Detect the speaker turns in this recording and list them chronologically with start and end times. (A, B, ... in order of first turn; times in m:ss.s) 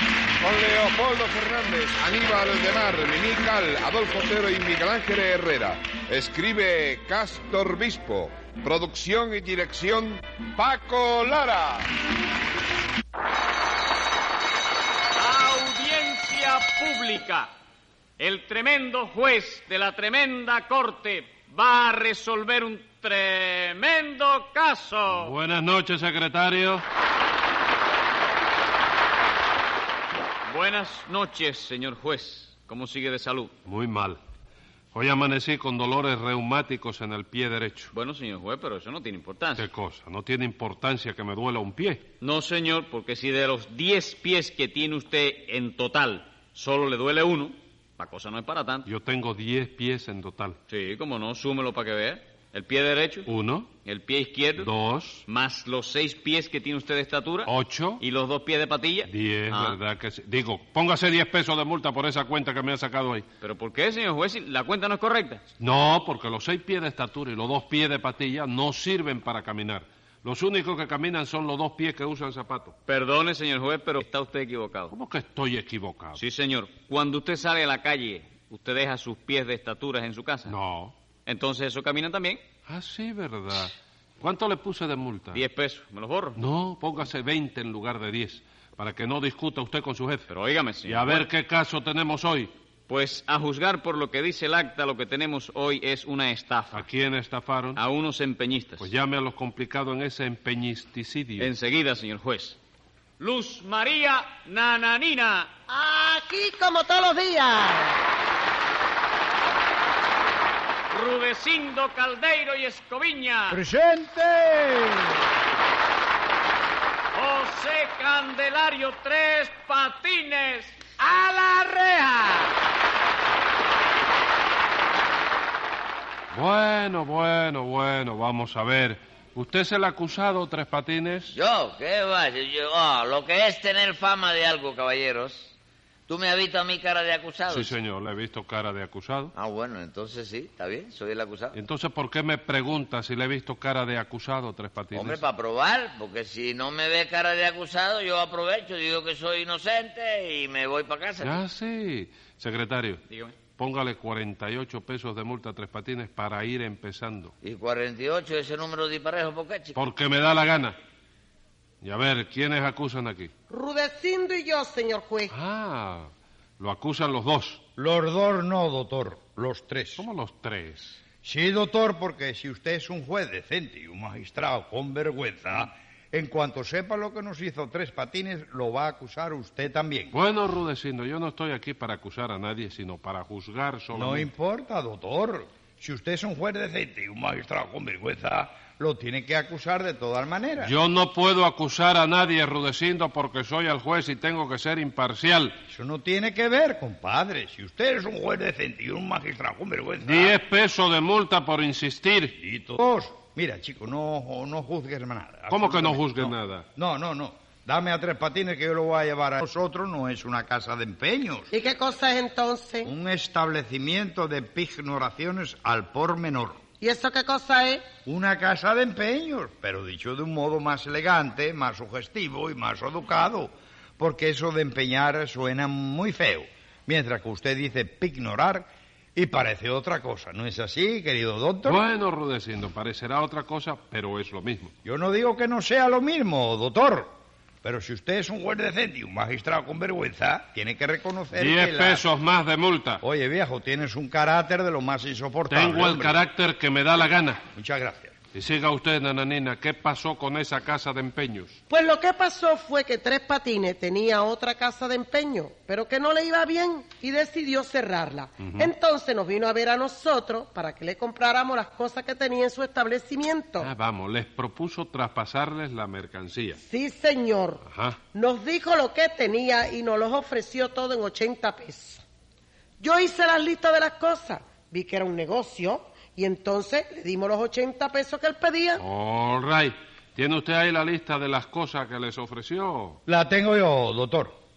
0:00.4-0:11.9 A
0:15.2-0:17.5 B
0:18.2-0:25.3 B
0:25.1-0:26.8 C
0:30.5-0:33.5 B
0:33.6-0:34.2 C
0:34.9-0:37.9 C
0:37.9-0:39.7 B
0:39.6-0:42.1 C
0:42.2-0:48.9 B
0:48.8-0:50.6 C
0:50.7-0:53.3 B
0:53.2-0:53.7 C
0:53.8-0:54.7 B
0:54.6-0:55.2 C
0:55.2-0:59.8 B
0:57.5-0:58.0 C
0:59.1-1:03.2 C
1:03.4-1:05.4 B
1:05.6-1:12.8 C
1:12.9-1:14.9 B
1:14.9-1:16.2 C
1:16.2-1:20.5 B
1:20.5-1:20.9 C
1:21.2-1:22.4 B
1:22.7-1:25.4 C
1:25.3-1:26.4 B
1:26.4-1:30.3 C
1:30.3-1:31.2 B
1:30.8-1:32.5 C
1:32.9-1:36.8 B
1:36.7-1:37.8 C
1:37.7-1:38.9 B
1:38.8-1:41.5 C
1:41.4-1:42.6 B
1:43.2-1:45.5 B
1:45.7-1:48.0 D
1:50.9-1:53.6 B
1:53.5-1:55.2 E
1:57.1-2:02.5 B
2:06.3-2:11.4 C
2:11.3-2:15.5 F
2:16.1-2:17.7 F
2:17.5-2:19.3 C
2:19.3-2:21.6 F
2:21.5-2:25.2 C
2:24.9-2:31.4 F
2:31.2-2:33.0 C
2:33.1-2:33.4 B
2:33.6-2:37.3 C
2:37.4-2:39.8 F
2:39.8-2:40.8 C
2:41.8-2:43.3 C
2:43.5-2:45.3 D
2:45.3-2:47.6 C
2:47.8-2:50.0 E
2:50.0-2:51.0 C
2:51.2-3:00.1 E
3:00.1-3:04.3 C
3:03.9-3:10.7 E
3:10.6-3:15.6 C
3:15.7-3:20.3 E
3:20.0-3:22.3 C
3:22.4-3:31.5 E
3:25.5-3:26.6 C
3:31.5-3:32.9 D
3:32.8-3:36.6 E
3:36.8-3:37.8 D
3:38.0-3:51.8 E
3:51.6-3:54.7 C
3:54.8-3:57.1 E
3:57.6-4:02.0 E
4:01.3-4:03.0 C
4:03.0-4:06.2 E
4:05.5-4:07.4 C
4:07.5-4:08.1 E
4:08.3-4:11.6 C
4:11.7-4:23.7 D
4:18.4-4:18.7 C
4:23.6-4:26.6 C
4:26.6-4:32.0 D
4:27.6-4:28.0 C
4:32.8-4:38.8 D
4:38.8-4:43.0 C
4:43.1-4:44.4 E